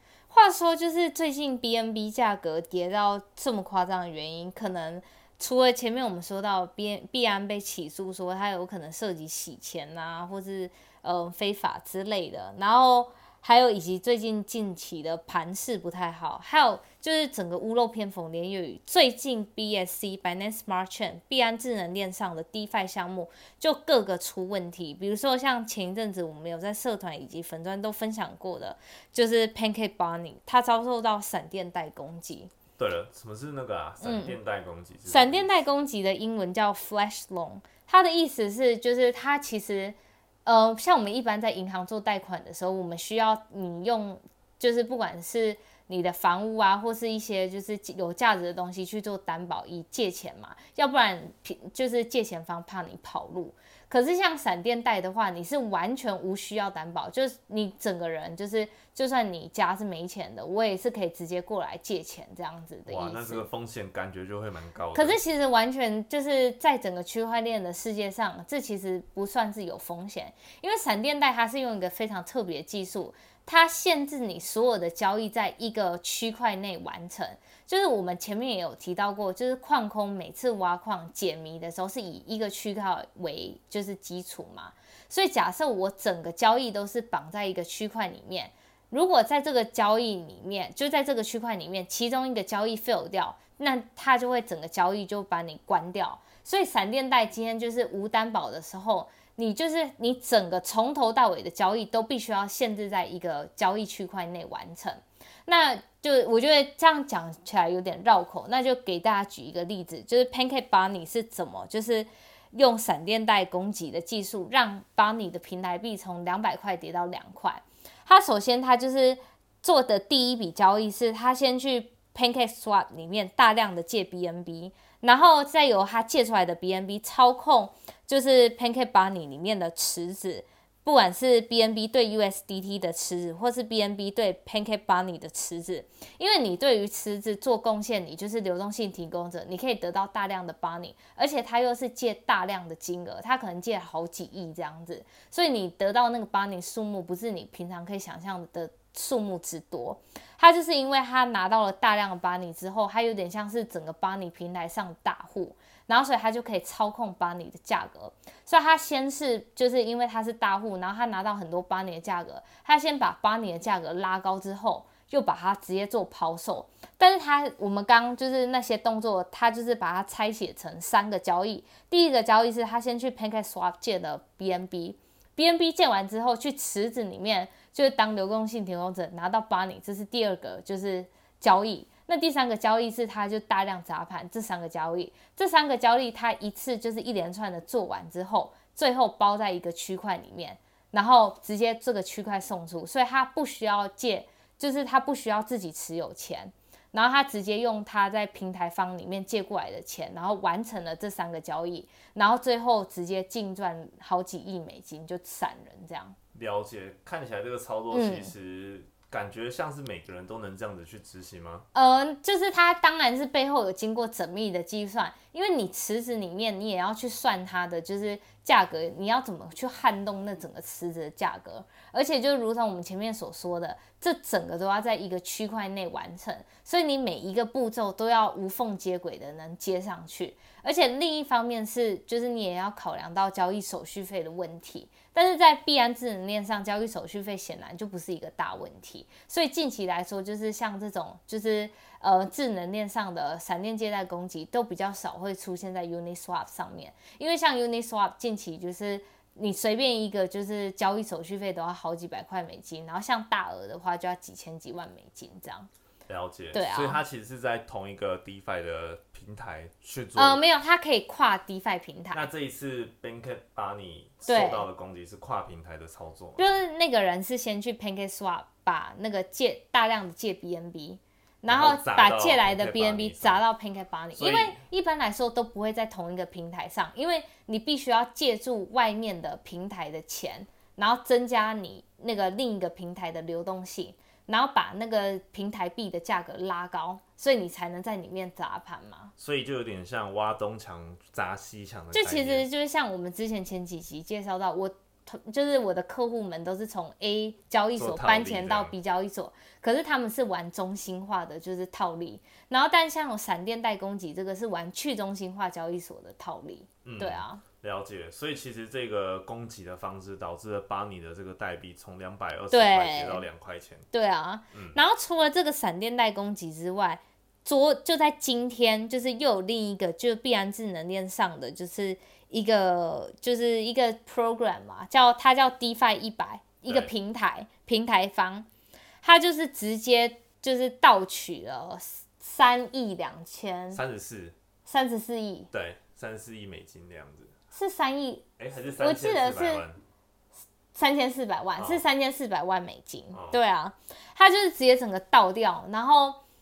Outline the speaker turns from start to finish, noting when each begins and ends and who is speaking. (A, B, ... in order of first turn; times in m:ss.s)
0:00.3-0:32.5 A
0:32.8-0:35.5 B
0:34.0-0:34.4 A
0:35.1-1:03.4 A
1:02.9-1:05.2 B
1:04.9-3:26.2 A
3:26.3-3:31.6 B
3:27.9-3:28.3 A
3:31.7-4:15.7 A
4:16.1-4:20.4 B
4:16.5-4:17.0 A
4:20.2-4:22.3 A
4:22.1-4:26.4 B
4:24.3-4:24.7 A
4:26.4-4:49.1 A
4:31.5-4:33.4 B
4:34.1-4:34.6 B
4:49.2-4:52.5 B
4:51.9-5:07.4 A
4:57.8-4:58.7 B
5:06.8-5:13.9 B
5:12.5-5:13.2 A
5:13.9-5:28.5 A
5:14.5-5:14.8 B
5:26.6-5:26.9 B
5:29.0-5:33.8 A
5:33.7-5:34.4 B
5:34.6-5:35.5 A
5:35.5-5:37.3 B
5:37.5-5:39.6 A
5:38.4-5:39.8 B
5:40.7-5:46.2 A
5:41.6-5:41.8 B
5:43.1-5:43.4 B